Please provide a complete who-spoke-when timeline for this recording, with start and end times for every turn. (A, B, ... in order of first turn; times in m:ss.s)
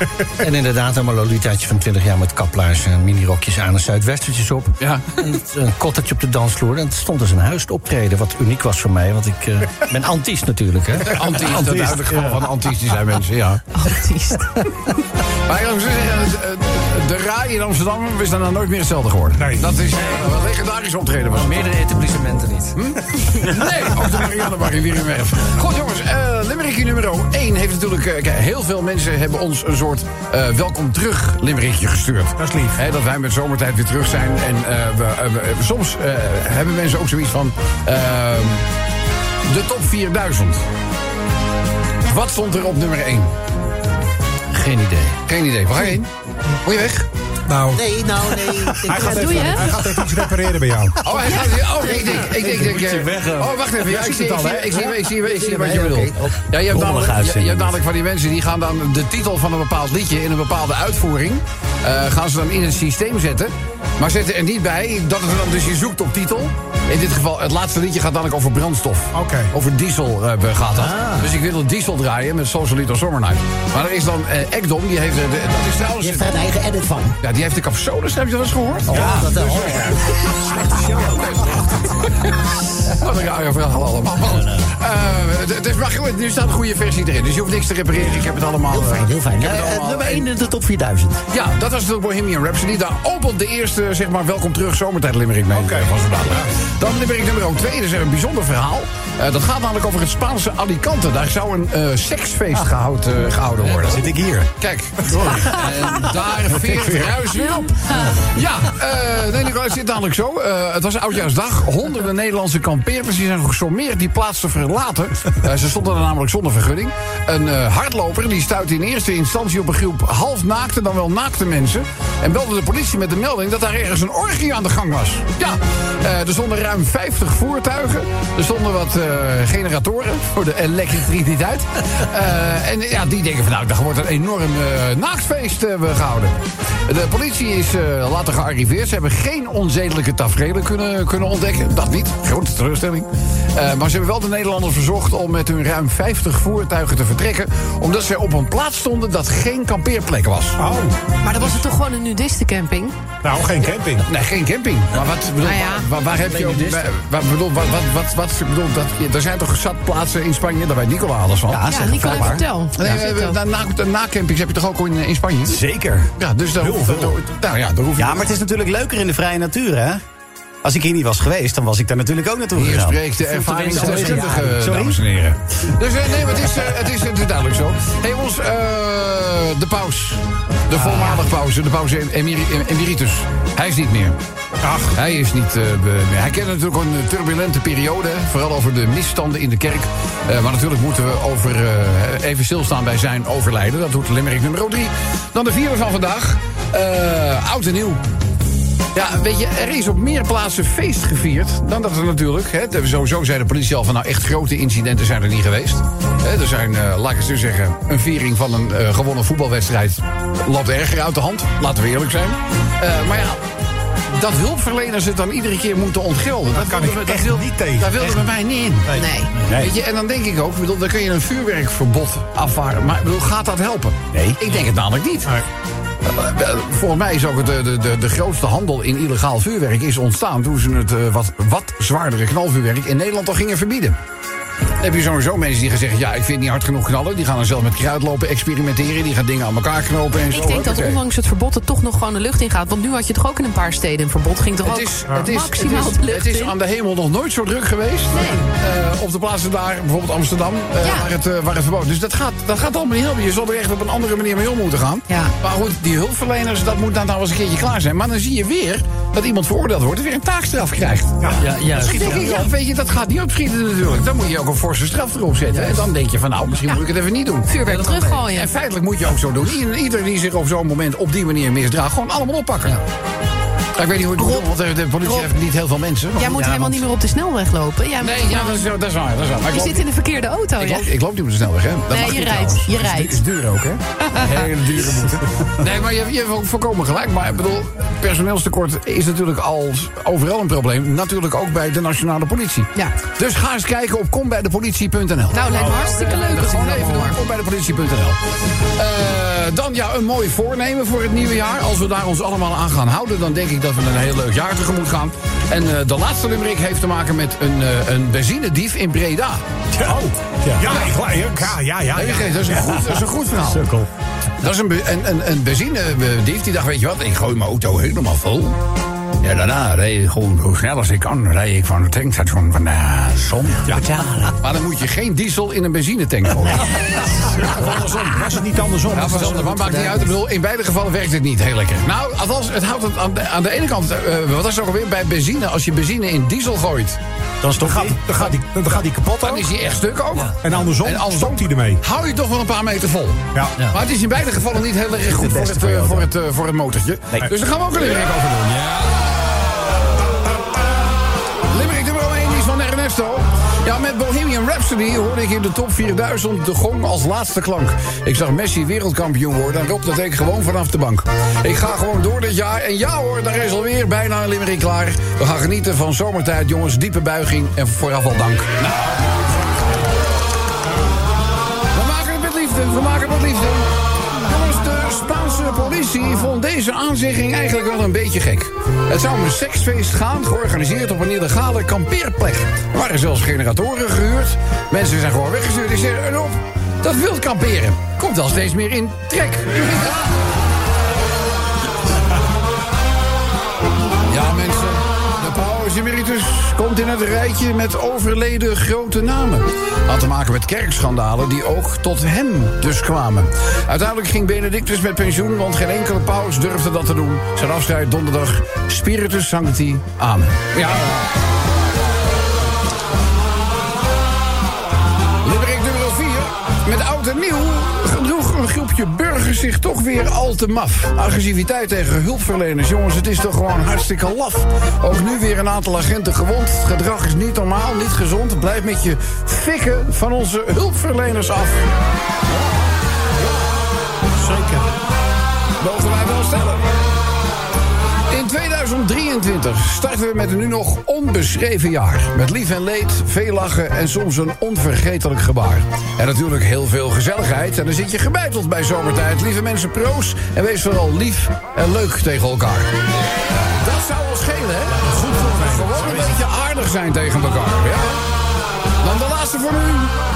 0:00.2-0:11.3 A
0:04.8-0:05.1 B
0:11.1-0:13.6 B
0:11.6-0:12.0 C
0:13.7-0:14.6 D
0:15.4-0:21.8 B
0:19.4-0:19.7 E
0:21.3-0:22.7 A
0:22.7-0:38.6 B
0:32.4-0:32.8 E
0:39.4-0:40.6 B
0:42.0-0:43.3 B
0:44.5-0:46.1 B
0:46.6-0:47.1 B
0:47.5-0:47.8 E
0:47.7-0:50.0 F
0:48.8-0:51.0 E
0:48.9-0:49.7 D
0:51.0-1:16.4 B
0:52.1-0:53.5 A
0:53.8-0:54.8 E
0:55.3-0:56.1 F
0:56.7-0:57.3 C
1:09.1-1:09.5 E
1:10.8-1:11.3 F
1:16.0-1:17.2 F
1:17.2-1:19.9 B
1:18.9-1:20.8 F
1:18.9-1:19.3 E
1:20.5-1:30.3 B
1:28.7-1:31.2 F
1:31.3-2:16.3 B
1:35.5-1:36.4 E
1:43.8-1:44.5 C
1:46.5-1:47.3 C
1:47.4-1:48.0 D
2:16.8-2:30.6 B
2:30.6-2:31.0 E
2:31.2-2:32.9 D
2:33.2-2:34.0 E
2:34.0-2:45.6 B
2:35.4-2:35.9 D
2:36.2-2:36.8 A
2:41.5-2:42.4 C
2:41.7-2:43.4 D
2:45.4-2:46.1 C
2:46.1-2:48.3 B
2:46.7-2:47.1 C
2:48.0-2:50.0 C
2:50.6-2:53.1 C
2:52.5-3:04.2 B
2:53.2-2:54.6 A
2:53.8-2:55.0 C
3:04.6-3:05.0 E
3:04.9-3:18.0 B
3:18.9-3:33.4 B
3:34.1-3:38.9 B
3:36.5-3:39.2 E
3:38.9-3:39.3 D
3:39.4-3:39.7 C
3:39.5-3:45.3 B
3:44.1-3:44.4 C
3:46.0-3:54.0 B
3:54.8-4:01.0 B
4:00.3-4:06.5 D
4:04.6-4:27.6 B
4:08.1-4:08.4 D
4:21.4-4:22.4 A
4:25.5-4:25.8 A
4:27.5-4:28.5 D
4:27.6-4:28.2 A
4:28.2-4:32.8 B
4:33.8-4:36.6 B
4:36.2-4:38.7 D
4:38.0-4:39.9 B
4:39.5-4:40.9 D
4:40.6-4:58.2 B
4:41.9-4:43.2 D
4:44.0-4:44.3 D
4:55.3-4:57.2 D
4:55.5-4:55.8 E
4:58.8-5:09.4 B
5:09.8-5:13.0 E
5:10.6-5:11.0 B
5:11.9-5:13.7 B
5:14.4-5:18.6 B
5:19.2-5:23.8 B
5:24.4-5:28.3 B
5:27.3-5:30.0 E
5:28.9-5:37.0 B
5:37.4-5:38.0 C
5:37.6-5:39.5 E
5:39.2-5:49.3 B
5:40.4-5:41.8 E
5:45.1-5:46.1 C
5:51.5-6:08.9 B
6:11.7-6:30.1 B
6:34.1-6:50.9 B
6:55.2-7:11.6 B
7:14.2-7:14.7 E
7:15.6-7:16.6 B
7:18.1-7:32.7 B
7:33.4-7:38.0 B
7:34.7-7:36.2 E
7:38.8-7:39.9 B